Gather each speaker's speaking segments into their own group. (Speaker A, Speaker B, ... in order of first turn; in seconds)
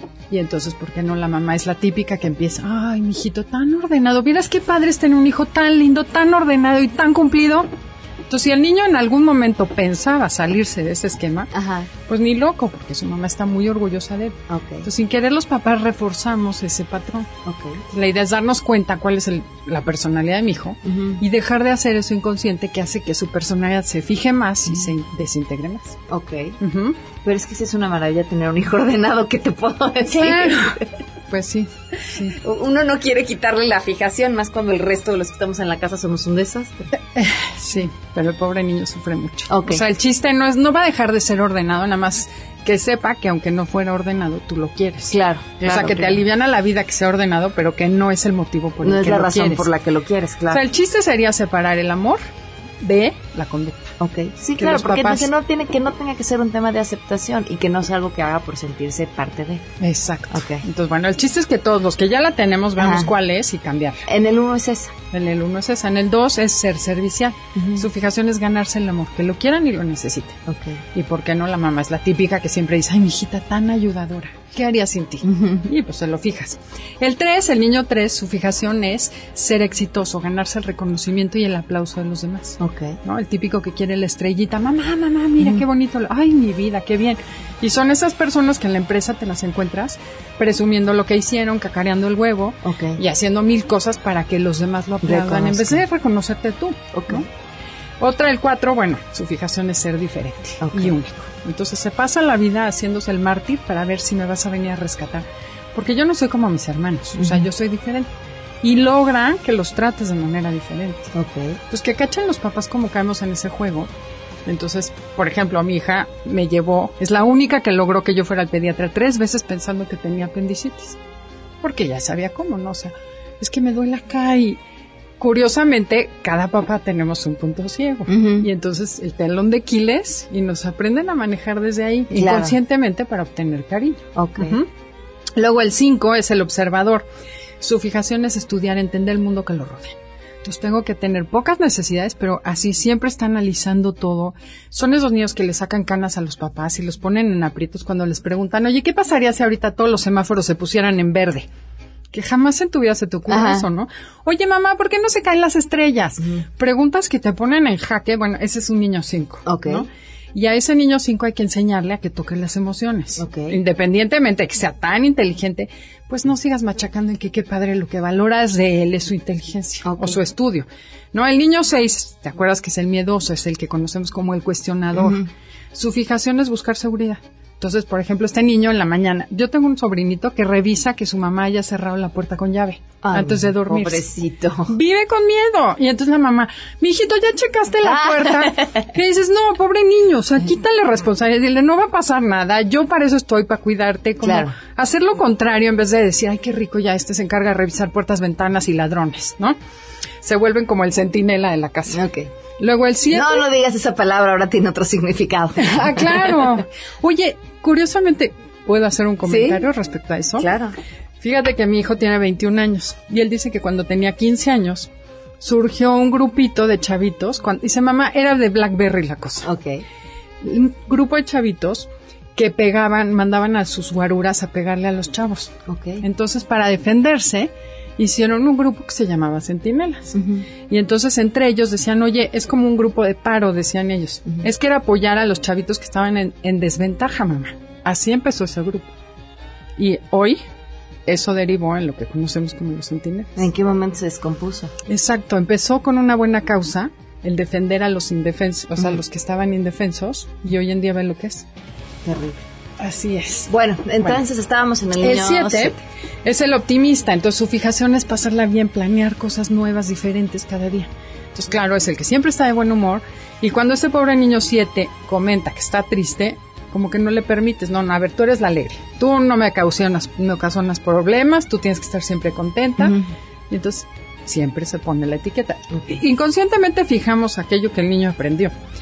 Speaker A: 0.3-7.7, 8.3-11.5, 12.1-17.3, 17.9-26.0, 26.6-27.0, 30.1-32.4, 37.1-49.7, 50.5-52.2, 52.8-53.9, 54.6-55.3, 59.8-64.0, 65.1-70.4, 70.9-97.2, 98.0-108.1, 108.6-111.1, 111.7-113.9, 114.5-121.0, 121.6-124.6, 125.2-134.7, 135.3-137.1, 137.6-151.5, 152.1-184.0, 184.7-199.6, 200.2-202.0, 202.6-203.5, 205.6-210.5, 211.2-214.9, 215.4-219.5, 220.4-238.9, 239.8-240.4, 241.1-243.4, 244.9-251.4, 252.8-254.2, 255.0-273.0, 273.5-278.5
Speaker B: 11.5-11.9, 14.5-14.9, 17.4-17.8, 20.8-21.2, 24.6-24.9, 26.1-26.6, 27.2-30.9, 32.1-36.9, 39.5-39.8, 45.1-46.2, 48.8-50.6, 54.0-59.7, 60.3-60.6, 62.8-63.1, 64.0-64.9, 67.5-67.9, 70.5-70.8, 75.2-75.7, 82.6-83.0, 85.4-85.6, 92.6-93.0, 95.0-95.8, 96.9-97.2, 100.6-101.0, 107.2-107.5, 111.1-111.6, 128.1-128.5, 132.1-132.6, 134.1-134.6, 153.3-153.7, 156.2-156.4, 159.4-159.8, 163.2-163.6, 169.8-170.2, 174.9-175.3, 183.0-184.8, 187.8-188.9, 194.2-194.5, 201.9-202.3, 203.1-206.6, 209.2-209.7, 210.4-210.7, 219.4-219.8, 225.7-226.0, 230.1-230.5, 243.3-244.7, 252.0-252.4, 253.5-255.8, 272.8-273.1, 275.7-276.0